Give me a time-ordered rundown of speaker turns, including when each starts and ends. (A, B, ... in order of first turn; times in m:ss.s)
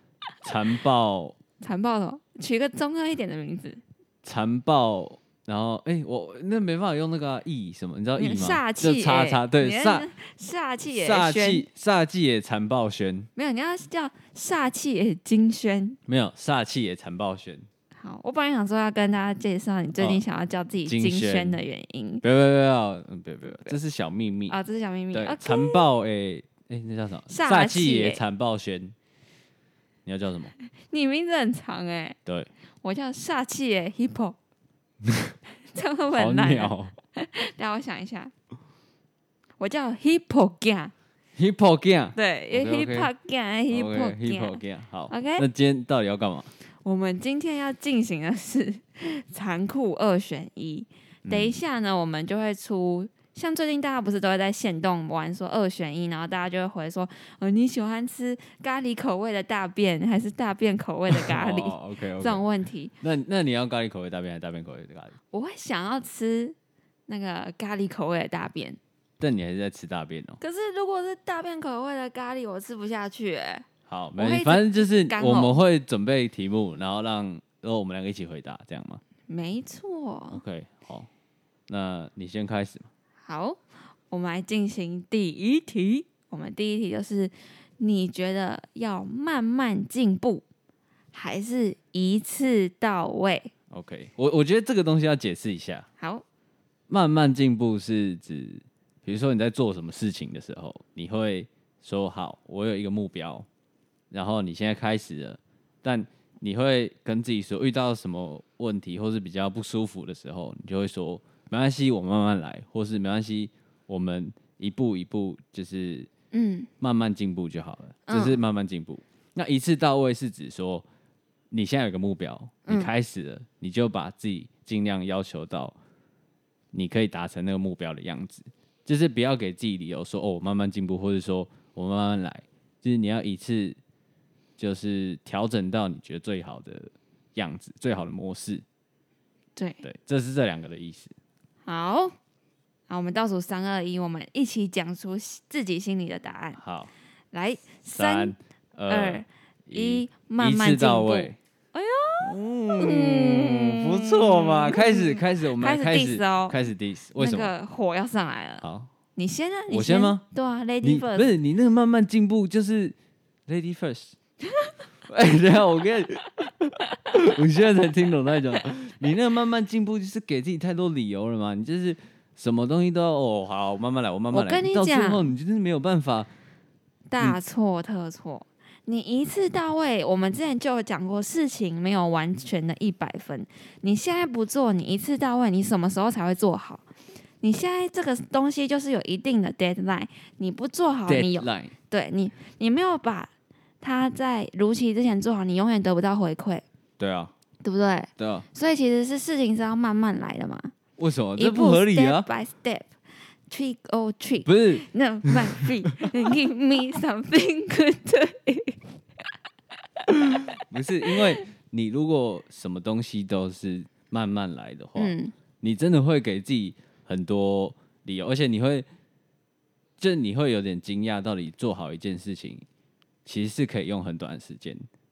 0:00.4-0:01.4 A
0:01.6-0:03.8 B
0:04.2-0:10.1 A
0:08.2-0:11.6 B
0:10.9-0:13.3 A
0:13.4-0:16.0 B
0:16.1-0:17.7 A
0:18.0-0:22.2 B
0:20.8-0:21.6 A
0:22.2-0:24.6 A
0:24.5-0:25.8 B
0:25.1-0:28.9 A
0:27.3-0:28.2 B
0:30.0-0:30.5 A
0:30.9-0:32.2 B
0:32.8-0:34.4 B
0:35.0-0:35.3 A
0:35.7-0:38.3 B
0:36.1-0:36.9 A
0:39.6-0:40.9 B
0:41.4-0:43.1 A
0:42.2-0:45.4 B
0:43.7-0:46.5 A
0:46.8-1:02.9 B
0:51.2-0:51.6 A
1:01.1-1:02.4 A
1:03.0-1:05.1 A
1:05.3-1:06.6 B
1:07.1-1:08.8 B
1:09.2-1:10.4 A
1:10.4-1:13.6 B
1:13.9-1:19.0 A
1:14.2-1:15.5 B
1:19.3-1:20.4 B
1:20.3-1:21.1 A
1:21.7-1:22.9 A
1:23.2-1:23.6 B
1:24.1-1:30.4 B
1:31.1-1:33.5 B
1:33.7-1:35.9 A
1:36.0-1:36.2 B
1:36.9-1:43.5 A
1:44.1-1:56.1 A
1:56.3-1:56.7 B
1:56.8-2:00.8 A
1:58.1-1:58.4 B
2:01.5-2:05.8 A
2:02.6-2:02.9 B
2:06.7-2:13.8 A
2:14.6-2:18.6 A
2:19.6-2:19.8 B
2:19.8-2:21.1 A
2:21.6-2:22.1 B
2:22.9-2:26.6 B
2:26.6-2:26.9 A
2:27.3-2:28.4 B
2:27.9-2:31.4 A
2:28.9-2:36.6 B
2:32.2-2:37.5 A
2:37.2-2:41.3 B
2:38.6-2:38.9 A
2:39.7-2:40.2 A
2:40.8-2:43.0 A
2:43.5-2:44.2 A
2:45.1-2:56.3 A
2:54.3-2:55.3 B
2:57.1-3:06.8 B
3:07.4-3:16.6 B
3:11.1-3:11.7 A
3:17.0-3:17.3 A
3:17.6-3:20.7 B
3:18.2-3:18.5 A
3:21.0-3:22.3 A
3:21.4-3:22.9 B
3:23.5-3:28.8 B
3:24.4-3:26.1 A
3:30.0-3:30.5 B
3:30.6-3:38.8 A
3:35.0-3:35.3 B
3:40.0-3:42.6 A
3:43.2-3:44.9 A